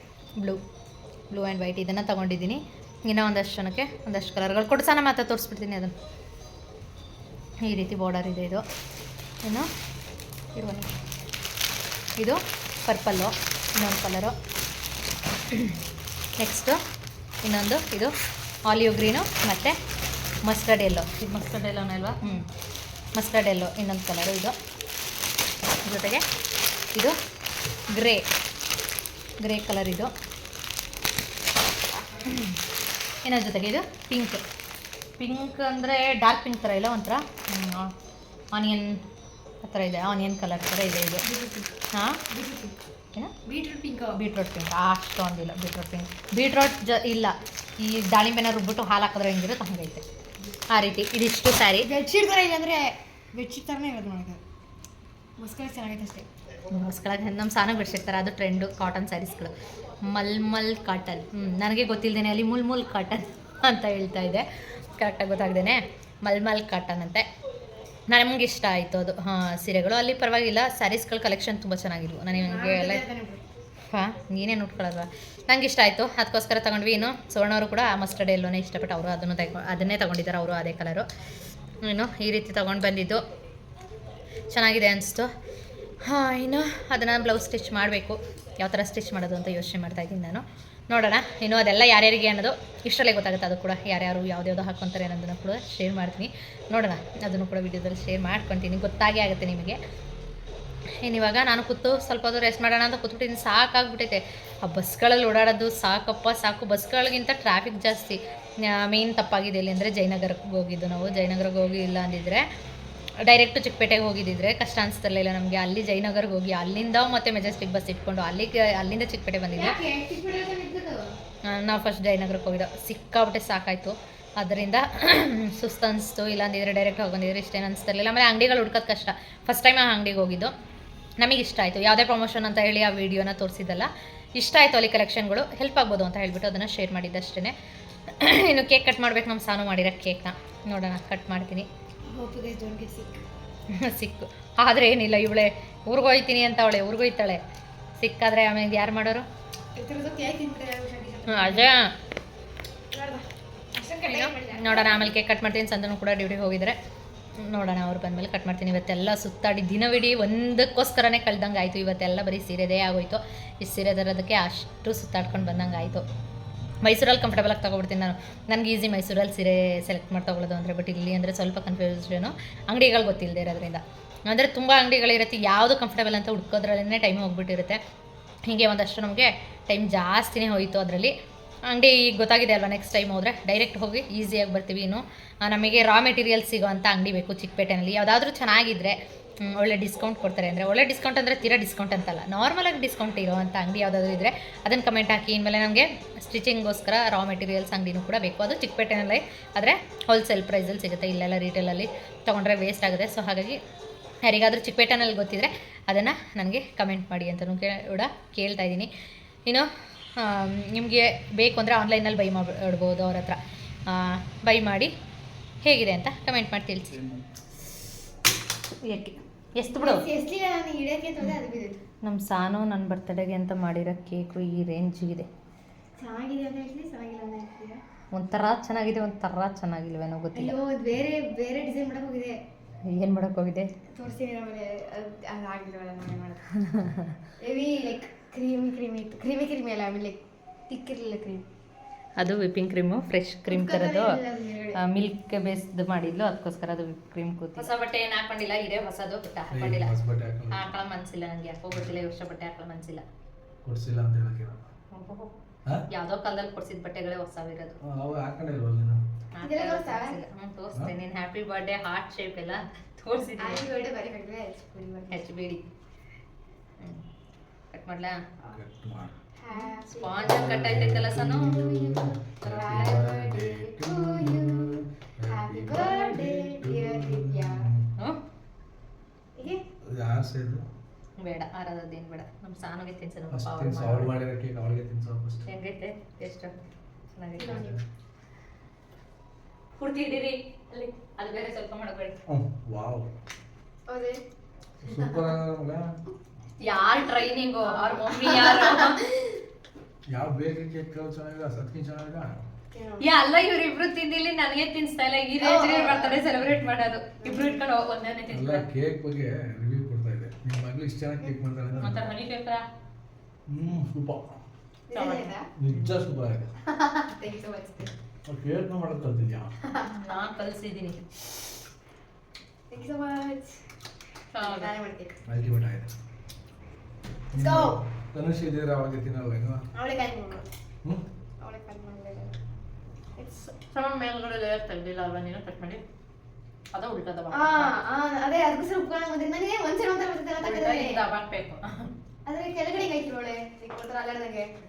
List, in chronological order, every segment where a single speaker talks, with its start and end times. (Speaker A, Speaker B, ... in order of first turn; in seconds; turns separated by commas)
Speaker A: 1.3-5.9, Speaker A: 7.6-8.6, Speaker A: 9.4-9.7, Speaker A: 10.6-10.9, Speaker A: 12.2-14.4, Speaker A: 16.4-16.8, Speaker A: 17.4-18.1, Speaker A: 18.7-19.8, Speaker A: 20.4-22.5, Speaker A: 23.1-24.6, Speaker A: 25.8-26.2, Speaker A: 27.9-28.3, Speaker A: 29.4-30.1, Speaker A: 32.3-32.6, Speaker A: 33.2-34.4, Speaker A: 35.2-37.9, Speaker A: 38.5-39.0, Speaker A: 39.6-41.3, Speaker B: 41.2-41.7, Speaker A: 41.9-42.2, Speaker B: 42.3-42.8, Speaker B: 43.5-44.2, Speaker A: 44.1-50.0, Speaker A: 50.7-51.9, Speaker B: 51.8-54.4, Speaker B: 55.4-56.3, Speaker A: 56.7-67.3, Speaker A: 68.1-73.0, Speaker B: 72.3-73.4, Speaker A: 73.9-81.1, Speaker A: 81.8-83.2, Speaker A: 84.5-85.3, Speaker A: 86.0-99.8, Speaker A: 101.0-112.5, Speaker A: 113.2-119.8, Speaker B: 119.5-121.1, Speaker A: 121.5-130.5, Speaker A: 131.2-137.6, Speaker A: 138.1-141.7, Speaker B: 142.1-143.2, Speaker A: 143.7-147.4, Speaker A: 148.0-149.3, Speaker B: 149.8-151.7, Speaker A: 151.3-151.9, Speaker B: 152.9-155.1, Speaker A: 154.1-156.8, Speaker A: 157.4-166.1, Speaker A: 166.8-177.8, Speaker A: 178.5-181.1, Speaker A: 181.7-203.6, Speaker A: 204.2-208.9, Speaker A: 209.5-214.9, Speaker A: 215.6-217.2, Speaker A: 218.8-220.1, Speaker B: 219.8-221.8, Speaker A: 222.0-225.3, Speaker B: 226.0-227.8, Speaker A: 228.1-230.6, Speaker B: 230.3-232.4, Speaker A: 232.9-233.7, Speaker B: 233.9-236.5, Speaker A: 236.7-237.1, Speaker B: 237.4-240.2, Speaker B: 240.7-241.4, Speaker A: 242.2-244.2, Speaker B: 243.5-244.8, Speaker A: 244.8-249.9, Speaker C: 249.5-250.8, Speaker A: 250.5-253.0, Speaker C: 253.6-254.6, Speaker A: 254.9-255.4, Speaker A: 255.9-257.8, Speaker C: 257.9-259.0, Speaker A: 259.3-263.6, Speaker B: 259.4-260.2, Speaker B: 263.4-265.2, Speaker A: 265.1-265.6, Speaker A: 267.7-268.2, Speaker C: 268.5-269.2, Speaker B: 269.4-270.5, Speaker A: 269.5-271.7, Speaker C: 270.1-277.9, Speaker B: 271.8-277.7, Speaker B: 279.4-279.6, Speaker C: 279.9-280.6, Speaker A: 281.2-284.1, Speaker C: 283.3-285.5, Speaker A: 285.5-287.7, Speaker B: 287.4-287.8, Speaker A: 289.8-292.2, Speaker C: 292.3-293.1, Speaker B: 293.9-294.2, Speaker C: 294.8-295.9, Speaker A: 296.6-299.0, Speaker B: 296.6-299.4, Speaker C: 300.1-302.4, Speaker B: 302.7-303.1, Speaker A: 303.0-308.7, Speaker B: 305.4-306.2, Speaker B: 307.2-307.6, Speaker C: 308.3-312.1, Speaker A: 311.8-312.6, Speaker C: 313.5-314.3, Speaker B: 314.9-315.5, Speaker A: 314.9-315.9, Speaker C: 315.6-316.5, Speaker B: 316.7-317.9, Speaker C: 318.3-319.5, Speaker B: 319.6-320.1, Speaker A: 319.9-321.0, Speaker B: 322.7-323.6, Speaker A: 324.3-324.7, Speaker B: 324.4-325.1, Speaker C: 325.3-325.9, Speaker C: 327.3-329.6, Speaker B: 327.3-327.8, Speaker B: 329.7-330.5, Speaker B: 331.4-332.4, Speaker B: 333.2-333.5, Speaker A: 333.6-335.8, Speaker A: 336.7-337.8, Speaker B: 337.3-341.0, Speaker A: 340.4-341.9, Speaker B: 342.3-344.5